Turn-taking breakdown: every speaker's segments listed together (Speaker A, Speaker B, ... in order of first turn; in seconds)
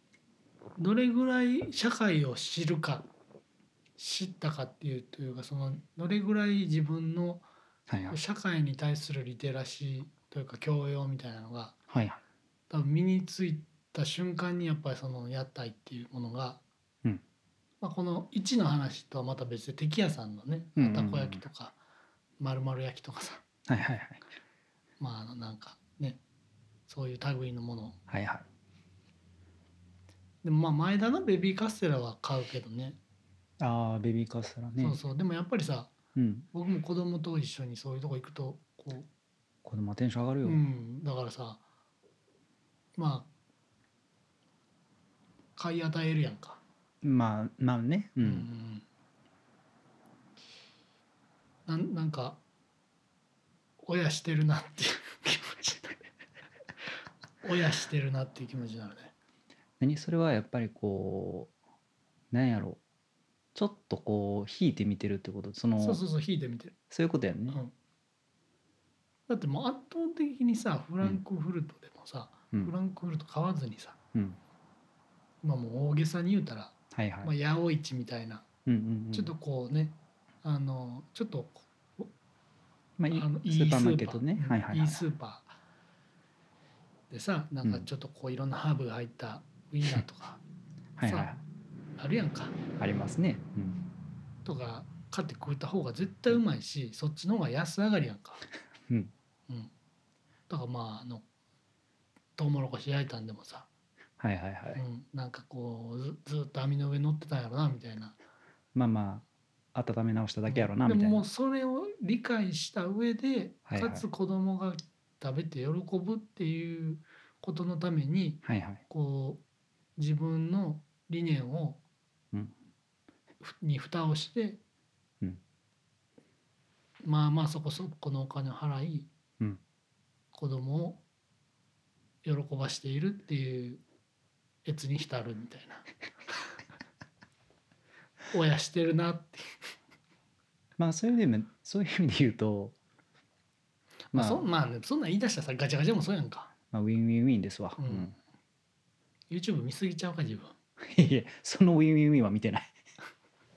Speaker A: 0.8-3.1, 4.0-7.5, 8.1-11.8, 12.7-16.6, 17.8-21.8, 22.4-23.4, 25.0-26.2, 26.9-28.0, 30.4-33.0, 34.8-35.9, 36.5-39.1, 40.4-41.6, 43.0-43.3, 45.6-46.6, 48.2-48.9, 51.7-52.4, 53.8-56.1, 57.4-59.1, 65.8-66.8, 69.3-74.0, 75.4-78.4, 79.1-82.1, 83.1-85.5, 87.1-90.4, 91.0-91.3, 92.0-92.6, 94.4-98.4, 100.5-101.2, 102.4-103.7, 104.8-108.2, 110.5-119.4, 120.0-121.8, 123.4-124.6, 127.0-129.1, 130.3-131.0, 132.2-133.8, 134.6-136.4, 138.3-139.7, 144.1-146.5, 147.8-148.1, 149.3-150.5
Speaker B: 7.9-8.2, 11.9-12.2, 20.8-21.4, 23.7-24.2, 28.1-28.5, 33.6-35.0, 36.1-36.5, 39.6-40.6, 47.0-48.5, 59.8-61.5, 62.3-62.8, 63.5-66.0, 66.9-67.6, 74.1-74.4, 76.9-77.3, 78.7-79.3, 83.0-85.0, 91.0-91.4, 92.8-93.8, 104.2-104.8, 108.8-111.2, 113.7-114.0, 118.4-118.8, 140.8-142.8, 144.1-144.5, 146.7-148.1, 150.8-152.7